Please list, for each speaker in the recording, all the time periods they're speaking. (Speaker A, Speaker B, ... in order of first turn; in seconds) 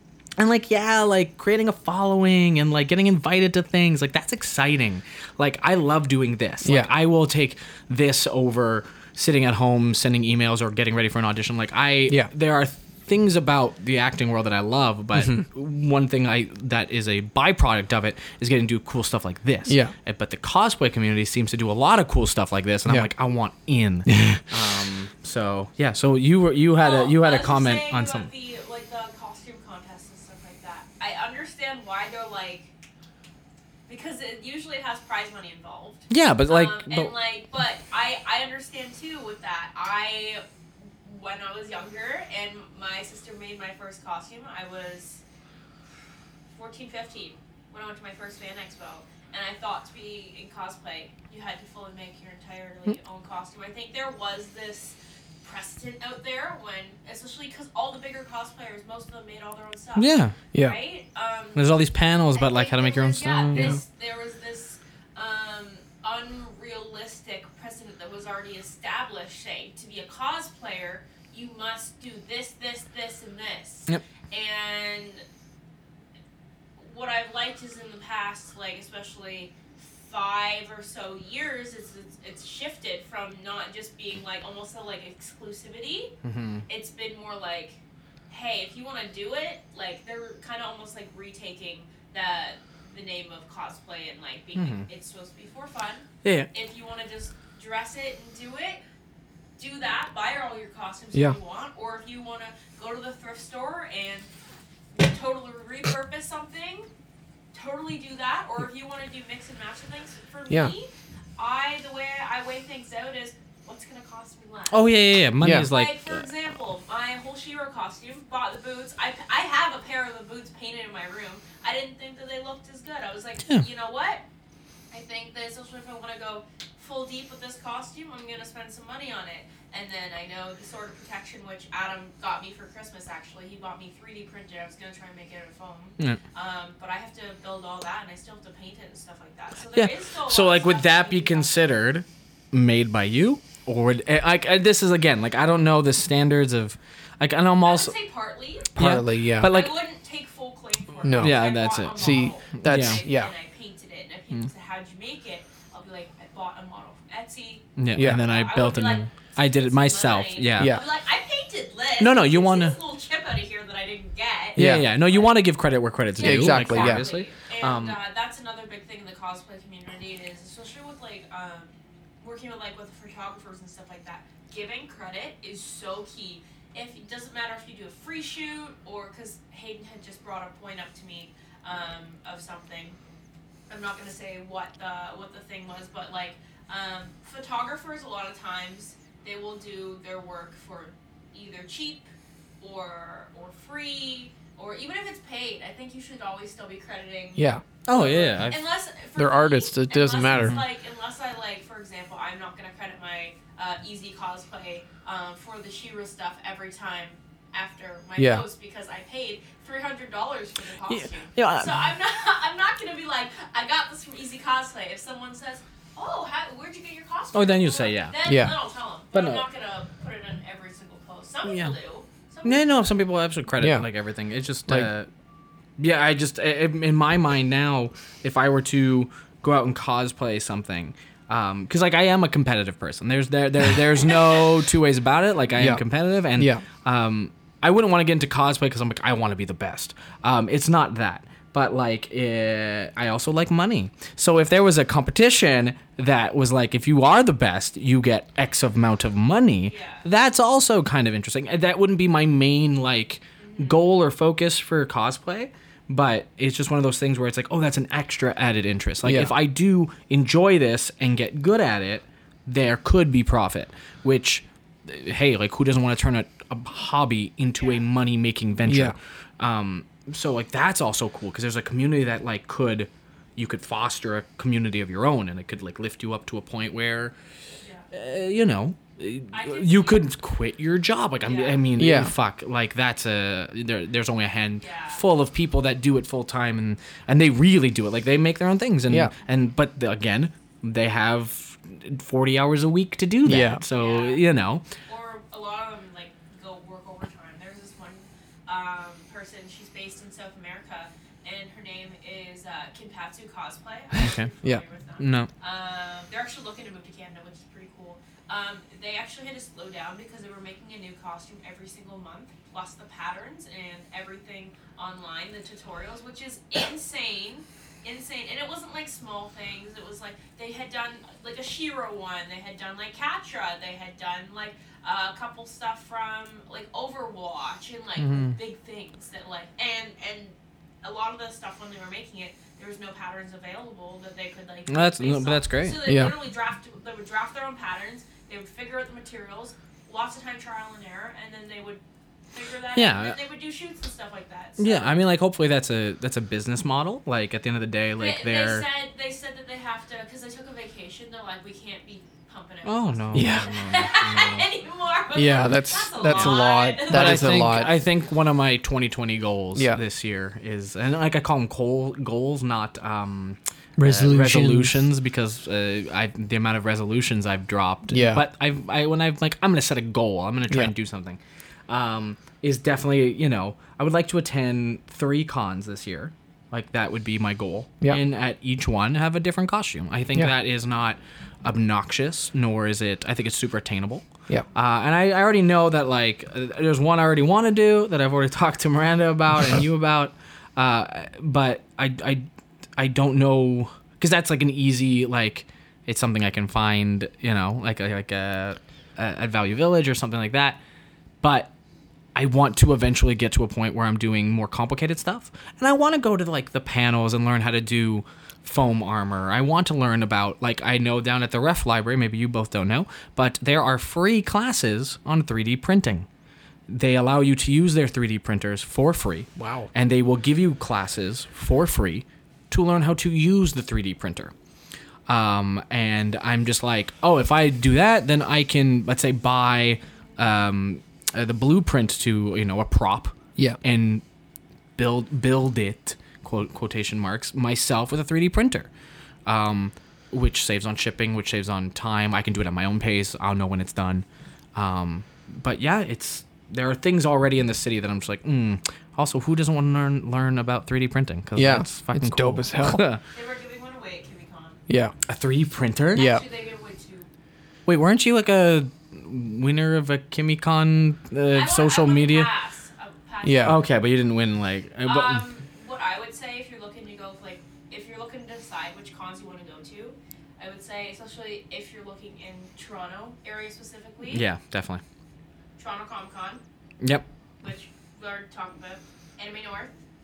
Speaker A: 0.4-28.3, 36.1-37.1, 60.0-60.4, 61.6-63.8, 86.2-86.7, 94.6-94.9, 96.2-96.5, 114.7-116.2, 139.7-147.9, 148.8-149.7, 151.2-153.0, 157.8-160.8, 162.0-162.8, 164.6-168.0, 197.9-198.6, 200.3-200.6, 210.9-211.8, 217.3-218.2, 219.1-219.4, 221.4-221.8, 222.4-225.1, 225.8-277.1, 277.9-294.6, 304.0-304.3, 305.0-305.3, 328.0-328.4, 334.7-335.8, 342.7-343.2, 344.6-348.6, 352.6-354.5, 356.0-400.6, 401.2-401.5, 402.1-416.1, 416.7-424.3, 425.1-434.0, 434.8-438.7, 439.3-453.0, 455.1-456.1, 457.7-462.3, 463.4-465.2, 474.0-474.8, 476.8-477.1
Speaker B: 6.6-6.9, 19.7-19.9, 24.1-24.4, 63.5-63.8, 110.5-110.7, 115.4-115.7, 148.8-149.5, 151.0-151.4, 151.9-153.3, 158.0-158.2, 160.6-160.8, 164.6-164.9, 166.2-167.1, 197.4-197.6, 199.2-200.6, 208.2-208.4, 218.2-218.5, 223.6-223.8, 235.6-235.8, 236.4-236.6, 259.0-259.3, 268.7-268.9, 281.8-282.1, 293.2-293.6, 335.8-336.1, 353.1-353.5, 355.1-357.7, 359.6-359.8, 363.8-364.7, 367.9-368.2, 419.4-419.7, 451.4-452.8, 454.7-454.9, 455.9-456.2, 463.2-463.6
Speaker C: 26.8-32.7, 33.9-40.4, 41.0-45.2, 46.5-75.2, 76.8-86.1, 86.7-98.8, 99.6-104.3, 104.9-106.9, 107.5-115.0, 115.7-124.2, 124.9-141.8, 147.6-148.8, 149.4-165.4, 166.1-183.0, 183.7-192.1, 192.6-222.7, 249.7-250.1, 253.4-254.0, 277.6-277.9, 279.3-280.1, 281.2-281.6, 284.6-285.0, 293.7-341.8, 342.3-345.0, 348.0-357.8, 453.1-454.6, 455.9-457.1, 461.3-463.6, 464.8-474.2, 475.6-476.4, 477.4-479.8